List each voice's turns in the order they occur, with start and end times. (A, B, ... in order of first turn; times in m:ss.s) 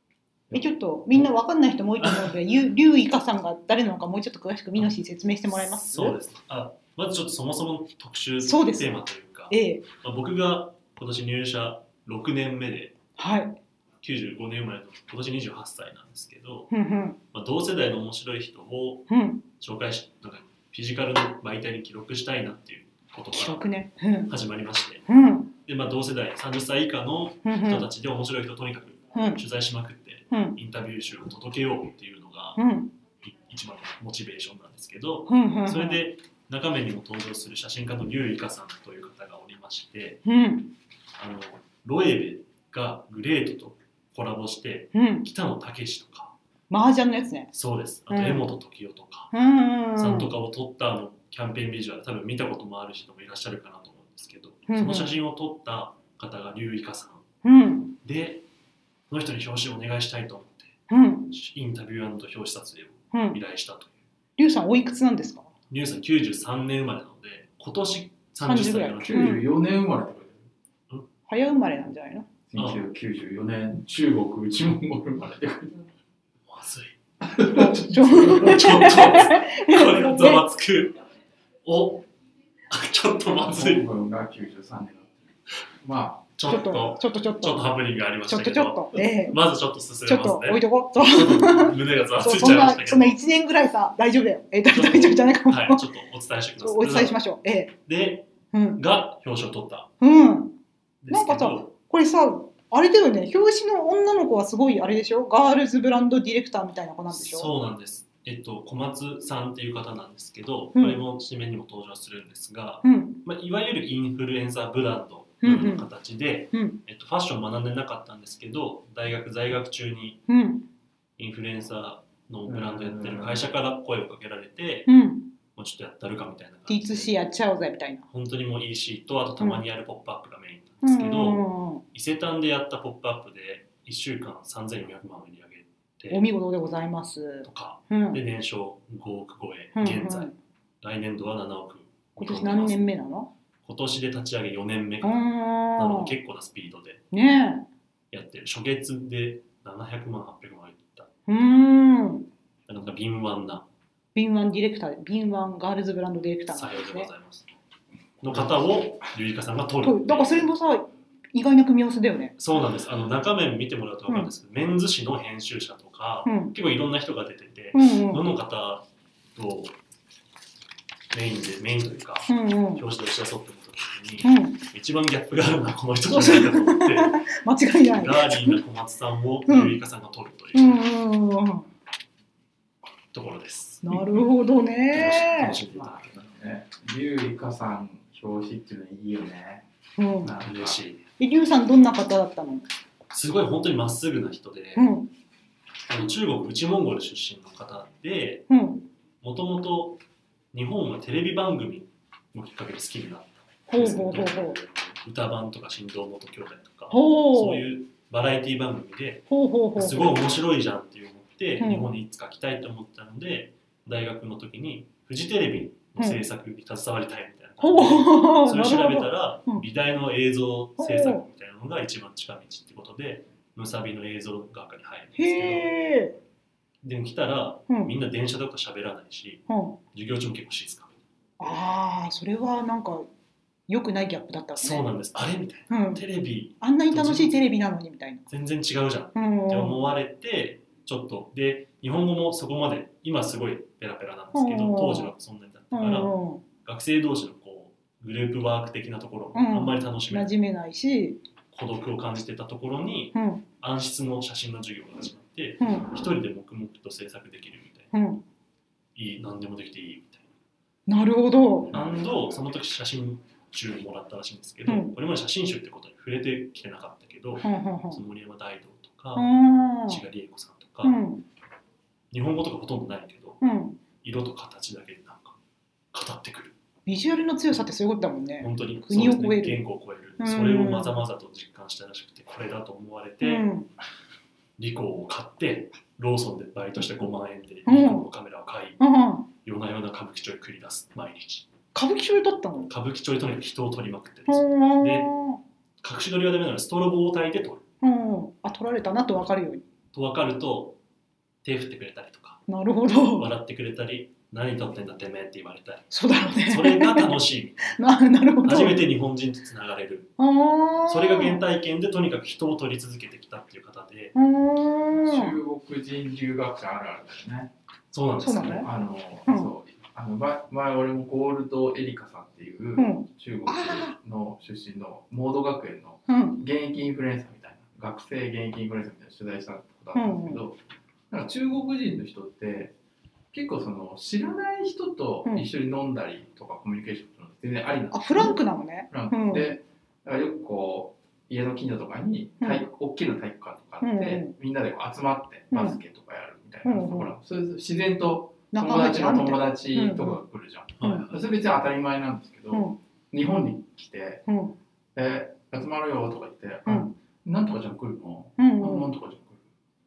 0:00.5-0:06.2 A
0:02.0-0:02.3 B
0:05.5-0:12.9 B
0:08.4-0:09.9 A
0:13.2-0:13.6 A
0:14.0-0:16.7 B
0:16.7-0:17.2 A
0:17.3-0:23.6 B
0:19.1-0:19.4 A
0:23.3-0:24.3 A
0:24.3-0:25.1 B
0:25.1-0:25.5 A
0:25.6-0:32.6 B
0:27.4-0:27.9 A
0:29.1-0:29.4 A
0:30.3-0:30.6 A
0:32.6-0:32.9 A
0:33.2-0:40.2 B
0:35.3-0:36.0 A
0:40.2-0:40.7 A
0:41.2-0:46.3 B
0:44.9-0:45.3 A
0:46.7-0:47.5 A
0:47.5-0:49.3 B
0:48.1-0:48.5 A
0:49.3-0:50.3 A
0:49.9-0:57.2 B
0:54.7-0:55.2 A
0:57.4-0:58.0 A
0:58.0-0:58.4 B
0:59.1-1:00.8 B
1:00.9-1:01.3 A
1:01.3-1:03.9 B
1:03.1-1:03.4 A
1:04.4-1:05.5 A
1:05.7-1:09.3 B
1:08.4-1:09.4 A
1:09.0-1:10.5 C
1:11.3-1:12.3 A
1:12.5-1:15.9 C
1:12.6-1:12.8 B
1:16.5-1:17.0 B
1:17.2-1:19.0 C
1:17.8-1:20.4 A
1:18.2-1:21.0 B
1:21.6-1:22.0 B
1:22.7-1:23.9 B
1:23.4-1:25.2 C
1:25.8-1:26.3 C
1:26.4-1:33.2 B
1:26.4-1:27.7 A
1:28.3-1:29.4 A
1:30.0-1:35.8 A
1:34.7-1:37.2 B
1:36.6-1:37.7 A
1:37.9-1:39.9 B
1:38.5-1:38.8 A
1:40.0-1:40.6 A
1:41.0-1:41.7 B
1:41.1-1:47.5 A
1:47.1-2:00.2 B
1:52.8-1:53.2 A
1:55.4-1:55.8 A
1:56.5-1:56.8 A
2:00.3-2:00.7 A
2:01.2-2:04.9 B
2:02.5-2:03.5 C
2:04.9-2:05.3 A
2:05.5-2:07.2 B
2:06.7-2:08.0 A
2:08.1-2:16.3 B
2:10.8-2:11.8 A
2:16.1-2:18.2 A
2:17.4-2:22.8 B
2:19.8-2:20.4 A
2:22.2-2:23.3 A
2:23.6-2:27.0 B
2:25.0-2:26.1 A
2:27.1-2:27.7 A
2:28.1-2:31.1 B
2:31.3-2:32.3 A
2:32.7-2:33.7 B
2:34.2-2:37.1 A
2:36.5-2:37.5 B
2:38.2-2:40.5 B
2:39.8-2:42.3 A
2:42.4-2:49.8 B
2:46.2-2:46.5 A
2:47.7-2:48.2 A
2:51.1-2:57.2 B
2:52.3-2:52.8 A
2:54.2-2:54.6 A
2:56.1-2:58.6 A
2:57.9-3:00.8 B
2:59.5-2:59.8 A
3:00.5-3:01.7 A
3:03.1-3:04.3 B
3:03.8-3:05.6 A
3:04.9-3:06.1 B
3:05.7-3:09.6 C
3:10.0-3:10.3 A
3:10.2-3:10.8 C
3:10.4-3:11.0 B
3:11.2-3:12.6 A
3:13.1-3:14.9 B
3:14.8-3:15.1 A
3:15.9-3:18.5 B
3:18.5-3:18.8 A
3:19.2-3:20.0 B
3:20.5-3:45.8 B
3:23.7-3:24.6 A
3:26.9-3:27.7 A
3:29.3-3:30.2 A
3:31.6-3:31.9 A
3:37.6-3:39.6 A
3:40.8-3:41.2 A
3:45.2-3:46.2 A
3:46.8-3:50.9 B
3:47.7-3:47.9 A
3:49.5-3:49.8 A
3:51.4-3:53.1 A
3:53.7-3:54.9 A
3:54.6-3:57.4 B
3:55.7-3:56.0 A
3:56.6-3:58.3 A
3:58.3-4:10.3 B
3:59.2-3:59.8 A
4:04.3-4:05.1 A
4:05.7-4:06.4 A
4:09.3-4:11.2 A
4:11.5-4:17.9 B
4:13.1-4:13.4 A
4:15.6-4:15.9 A
4:17.9-4:18.2 A
4:18.9-4:20.3 B
4:20.9-4:21.7 A
4:21.7-4:29.3 B
4:24.6-4:24.9 A
4:27.4-4:28.0 A
4:29.1-4:30.0 A
4:29.9-4:31.0 B
4:30.8-4:31.2 A
4:32.1-4:33.4 B
4:33.4-4:33.8 A
4:34.0-4:35.4 B
4:35.9-4:36.6 B
4:36.9-4:39.6 A
4:38.4-4:43.5 B
4:40.2-4:41.0 A
4:43.2-4:43.7 A
4:44.6-4:48.8 B
4:47.6-4:48.1 A
4:48.8-4:49.3 A
4:49.4-4:51.5 B
4:51.7-4:52.7 A
4:52.7-4:55.1 B
4:54.3-4:55.4 A
4:55.8-4:57.6 B
4:57.8-4:59.6 A
4:59.9-5:00.8 B
5:01.4-5:02.4 B
5:02.5-5:03.3 A
5:03.2-5:07.8 B
5:05.9-5:07.1 A
5:07.7-5:08.8 A
5:08.4-5:10.1 B
5:10.2-5:11.4 A
5:10.9-5:14.1 B
5:14.1-5:15.4 A
5:15.0-5:17.5 C
5:17.9-5:18.7 B
5:18.2-5:18.7 A
5:18.6-5:30.6 C
5:19.3-5:19.5 A
5:22.8-5:24.0 A
5:26.1-5:26.4 A
5:29.9-5:30.4 A
5:31.1-5:32.7 C
5:33.3-5:54.2 C
5:37.9-5:39.6 A
5:43.8-5:44.3 A
5:45.5-5:45.8 A
5:46.6-5:47.1 A
5:48.5-5:50.2 A
5:50.8-5:51.1 B
5:50.8-5:51.1 A
5:52.5-5:52.8 A
5:54.3-5:54.6 A
5:54.9-5:59.4 C
5:56.6-5:56.9 A
5:58.4-5:58.9 A